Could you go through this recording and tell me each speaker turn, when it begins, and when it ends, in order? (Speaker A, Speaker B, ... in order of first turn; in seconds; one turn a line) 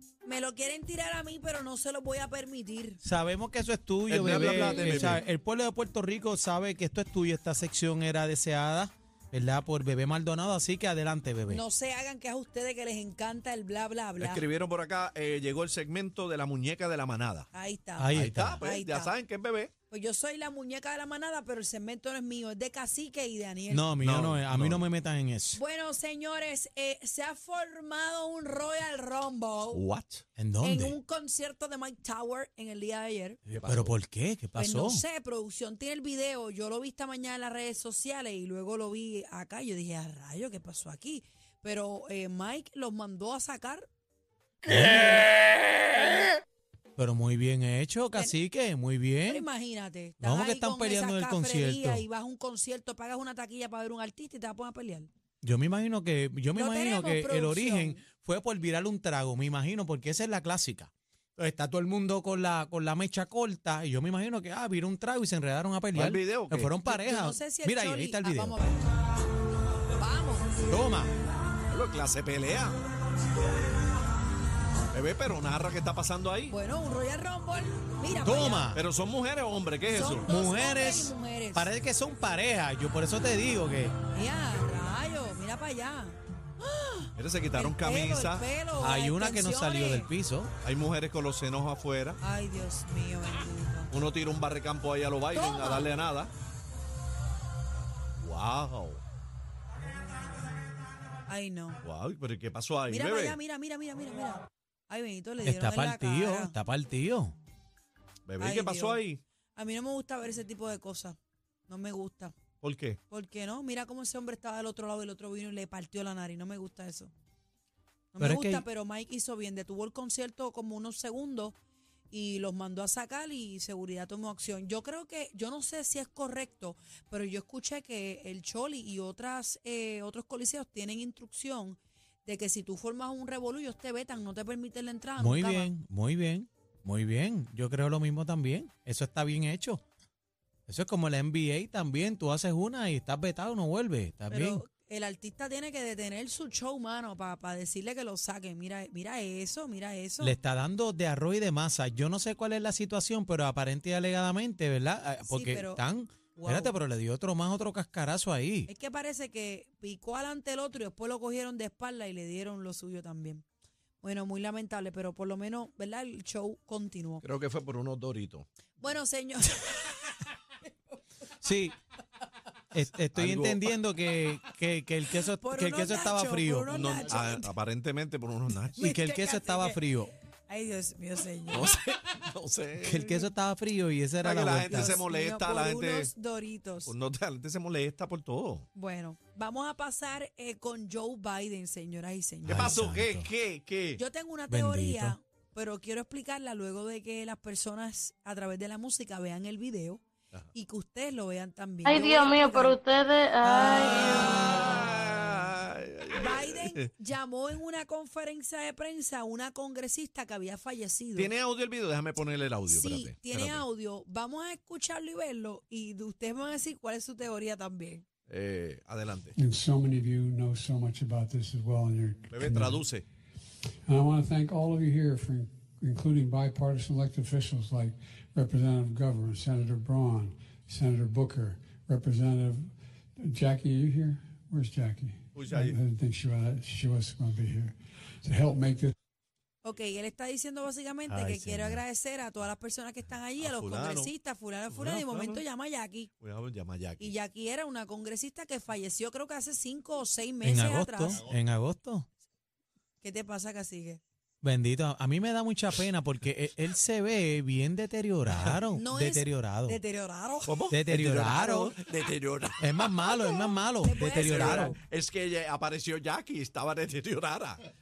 Speaker A: 0.2-3.0
Speaker B: 3.0-11.6
Speaker C: 4.1-5.2
Speaker A: 4.5-4.9
Speaker A: 11.5-14.4
Speaker C: 14.2-17.5
Speaker A: 17.5-19.2
Speaker B: 18.0-18.6
Speaker C: 18.1-19.7
Speaker A: 19.9-23.9
Speaker B: 23.7-25.6
Speaker C: 24.0-24.9
Speaker A: 25.5-29.8
Speaker C: 29.7-30.2
Speaker B: 30.4-31.0
Speaker A: 30.6-33.4
Speaker B: 33.5-35.0
Speaker C: 33.5-34.0
Speaker A: 34.5-43.9
Speaker B: 44.7-45.3
Speaker B: 47.0-49.4
Speaker A: 49.2-55.1
Speaker B: 50.2-52.0
Speaker B: 55.4-68.6
Speaker A: 56.6-58.0
Speaker C: 65.9-66.7
Speaker A: 66.8-68.9
Speaker A: 70.0-70.5
Speaker B: 70.7-71.1
Speaker C: 71.7-72.8
Speaker C: 74.9-76.6
Speaker A: 76.5-78.7
Speaker B: 78.2-78.8
Speaker C: 78.7-80.3
Speaker A: 79.9-81.7
Speaker B: 80.3-83.9
Speaker A: 84.1-90.1
Speaker C: 87.2-88.5
Speaker B: 88.8-90.5
Speaker C: 90.6-92.2
Speaker A: 92.2-93.9
Speaker C: 93.9-96.3
Speaker A: 95.3-95.9
Speaker C: 98.2-99.0
Speaker A: 101.3-101.8
Speaker C: 101.8-103.4
Speaker A: 102.9-106.6
Speaker B: 105.4-107.4
Speaker C: 108.3-109.2
Speaker A: 108.4-109.0
Speaker A: 109.5-112.4
Speaker C: 112.6-113.0
Speaker A: 113.1-117.1
Speaker A: 118.1-121.6
Speaker B: 118.2-118.7
Speaker A: 122.1-135.7
Speaker B: 135.2-139.8
Speaker B: 140.7-144.6
Speaker A: 144.3-150.4
Speaker B: 150.2-158.7
Speaker A: 155.3-156.8
Speaker A: 158.7-163.4
Speaker A: 164.0-167.2
Speaker C: 167.2-168.5
Speaker A: 168.8-170.1
Speaker B: 171.4-171.8
Speaker B: 172.7-176.7
Speaker C: 173.1-173.7
Speaker A: 175.4-177.5
Speaker C: 176.7-178.9
Speaker B: 178.8-180.1
Speaker A: 178.8-179.8
Speaker A: 180.5-181.8
Speaker C: 181.5-183.1
Speaker B: 182.8-185.0
Speaker C: 184.2-186.1
Speaker A: 184.6-186.9
Speaker C: 186.8-188.7
Speaker A: 188.8-192.8
Speaker B: 192.4-193.3
Speaker C: 192.5-194.0
Speaker A: 194.0-200.0
Speaker B: 194.5-195.2
Speaker A: 200.5-202.8
Speaker D: 201.8-204.5
Speaker A: 203.4-204.8
Speaker C: 204.1-206.9
Speaker A: 206.1-211.3
Speaker C: 211.2-213.6
Speaker A: 212.7-218.1
Speaker C: 218.3-219.4
Speaker E: 219.3-222.8
Speaker C: 222.3-223.1
Speaker E: 223.9-238.9
Speaker C: 235.3-235.8
Speaker A: 239.6-246.1
Speaker B: 241.1-241.8
Speaker C: 243.4-244.1
Speaker C: 244.7-245.4
Speaker C: 246.2-247.1
Speaker A: 247.0-251.2
Speaker B: 250.4-252.1
Speaker A: 253.0-254.0
Speaker B: 254.4-259.8
Speaker C: 258.3-258.6
Speaker A: 258.7-260.5
Speaker C: 260.4-263.1
Speaker B: 260.7-261.8
Speaker B: 262.6-264.8
Speaker A: 263.3-264.8
Speaker C: 264.1-267.7